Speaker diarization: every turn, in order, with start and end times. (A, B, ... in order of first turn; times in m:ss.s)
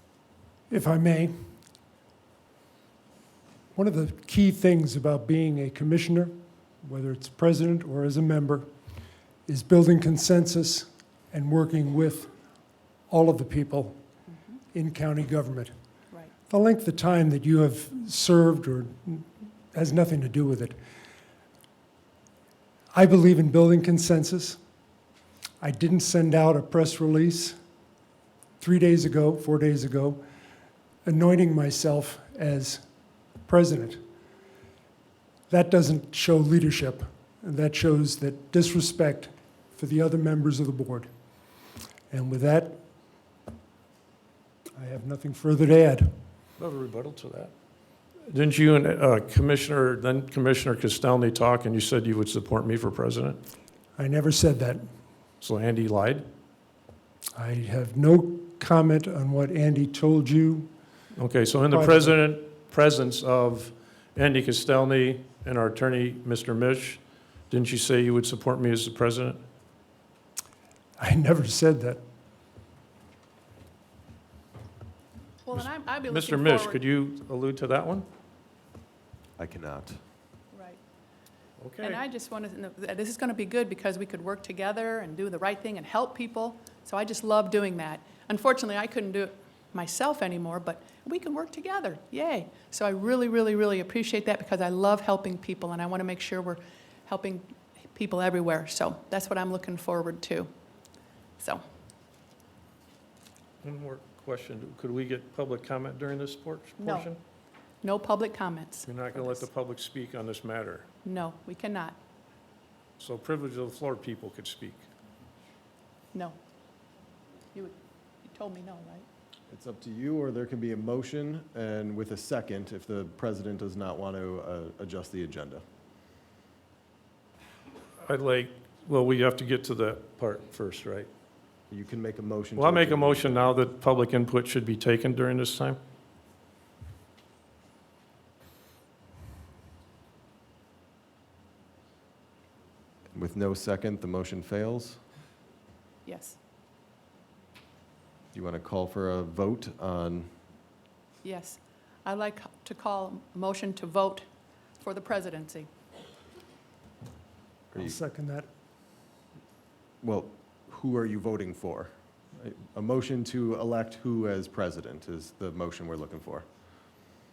0:00.7-0:01.4 A
0:03.7-0:08.7 A
0:09.5-0:12.3 A
0:13.1-0:14.0 A
0:14.3-0:14.6 B
0:14.7-0:15.7 A
0:16.5-0:20.8 A
0:22.9-0:24.6 A
0:25.6-0:27.6 A
0:28.6-0:30.2 A
0:31.0-0:32.8 A
0:33.5-0:34.0 A
0:35.5-0:41.1 A
0:42.1-0:42.8 A
0:44.8-0:46.2 A
0:46.6-0:47.5 C
0:48.3-0:53.4 C
0:54.0-0:54.8 A
0:55.4-0:56.3 C
0:57.4-1:00.7 A
1:01.1-1:09.4 C
1:01.7-1:02.2 A
1:11.0-1:12.0 A
1:15.4-1:16.8 B
1:16.1-1:18.1 C
1:19.4-1:20.0 D
1:20.5-1:20.8 B
1:21.6-1:22.0 C
1:21.8-1:40.5 B
1:43.6-1:47.2 C
1:46.8-1:47.1 B
1:47.8-1:49.5 B
1:48.9-1:50.9 C
1:51.0-1:52.0 B
1:53.0-1:54.9 C
1:57.5-1:59.1 B
1:59.5-2:05.6 D
2:08.0-2:11.1 C
2:11.7-2:13.5 D
2:12.6-2:15.8 C
2:23.1-2:25.0 D
2:26.0-2:26.4 B
2:28.3-2:30.3 D
2:31.2-2:34.2 B
2:34.8-2:35.7 B
2:37.8-2:38.5 A
2:40.0-2:46.5 D